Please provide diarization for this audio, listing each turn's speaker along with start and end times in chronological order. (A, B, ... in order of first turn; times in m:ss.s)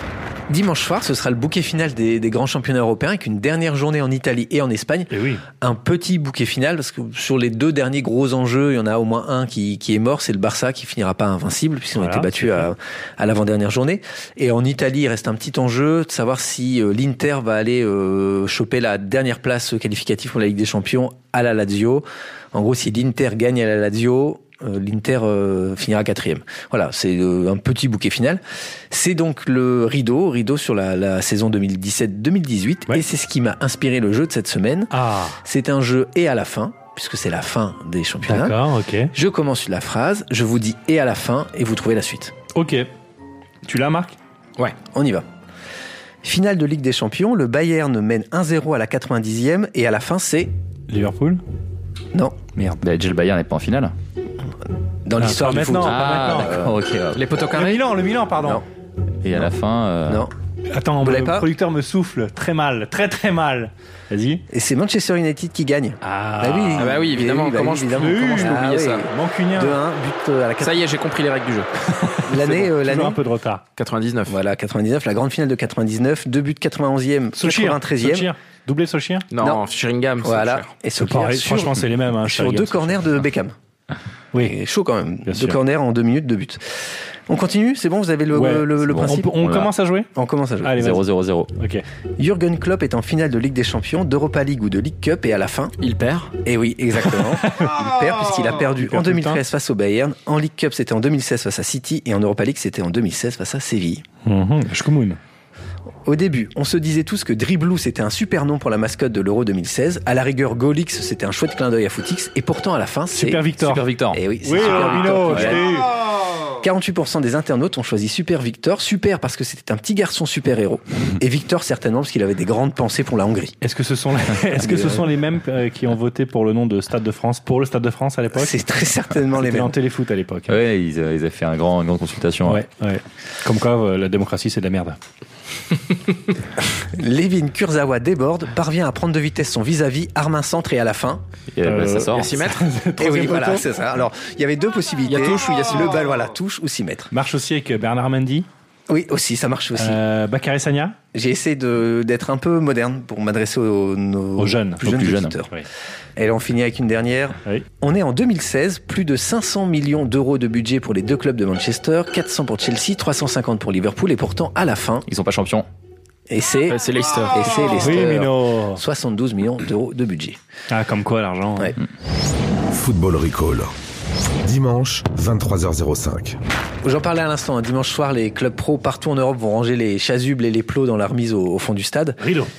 0:00.5-0:34.9 A
0:05.1-0:05.4 B
0:12.0-0:12.7 B
0:34.9-0:35.4 B
0:35.4-0:38.6 A
0:38.3-0:39.1 B
0:39.1-0:42.3 A
0:42.5-0:42.9 B
0:43.6-0:44.2 B
0:44.9-0:45.3 A
0:46.2-0:50.5 A
0:50.9-0:51.4 B
0:52.6-0:52.8 B
0:52.8-0:53.9 C
0:55.0-0:56.7 A
0:55.2-0:56.6 B
0:55.8-0:57.2 C
0:57.2-0:57.8 D
0:57.5-0:58.6 B
0:59.2-1:00.3 C
1:00.1-1:00.3 A
1:00.7-1:04.4 B
1:01.0-1:01.5 A
1:04.5-1:10.9 A
1:06.0-1:06.9 B
1:06.8-1:09.1 D
1:07.9-1:09.8 B
1:10.6-1:11.7 D
1:12.0-1:13.6 B
1:12.3-1:13.2 A
1:13.8-1:14.4 D
1:14.3-1:18.3 A
1:17.4-1:19.3 B
1:19.3-1:20.7 D
1:20.2-1:23.6 A
1:21.0-1:22.9 B
1:24.4-1:26.6 A
1:25.3-1:25.6 B
1:27.3-1:29.4 A
1:28.3-1:30.1 B
1:28.9-1:29.7 C
1:30.2-1:30.9 A
1:30.6-1:31.0 B
1:30.8-1:31.5 C
1:31.6-1:31.8 B
1:32.2-1:35.7 A
1:35.8-1:36.3 D
1:36.4-1:44.0 A
1:37.5-1:37.8 B
1:38.8-1:39.4 B
1:44.2-1:45.2 B
1:46.0-1:53.5 A
1:53.1-1:53.8 B
1:53.6-1:55.6 C
1:54.1-1:55.8 A
1:54.4-1:55.9 B
1:56.6-2:03.6 A
2:03.6-2:08.6 B
2:04.6-2:05.1 A
2:08.3-2:09.8 A
2:09.4-2:10.6 B
2:10.5-2:12.6 C
2:12.5-2:15.0 B
2:16.9-2:21.2 A
2:21.5-2:22.3 C
2:21.6-2:23.7 B
2:22.1-2:22.6 D
2:23.0-2:27.1 A
2:25.1-2:26.0 D
2:27.1-2:28.5 B
2:28.9-2:30.0 A
2:29.8-2:31.0 B
2:31.1-2:35.5 A
2:34.4-2:35.7 B
2:34.8-2:35.3 C
2:36.2-2:45.1 A
2:45.1-2:45.7 C
2:46.3-2:50.4 A
2:46.7-2:48.0 D
2:47.8-2:48.8 B
2:50.7-2:51.8 B
2:52.7-2:53.7 E
2:54.4-2:56.4 E
2:56.8-3:02.2 A
3:02.2-3:02.5 B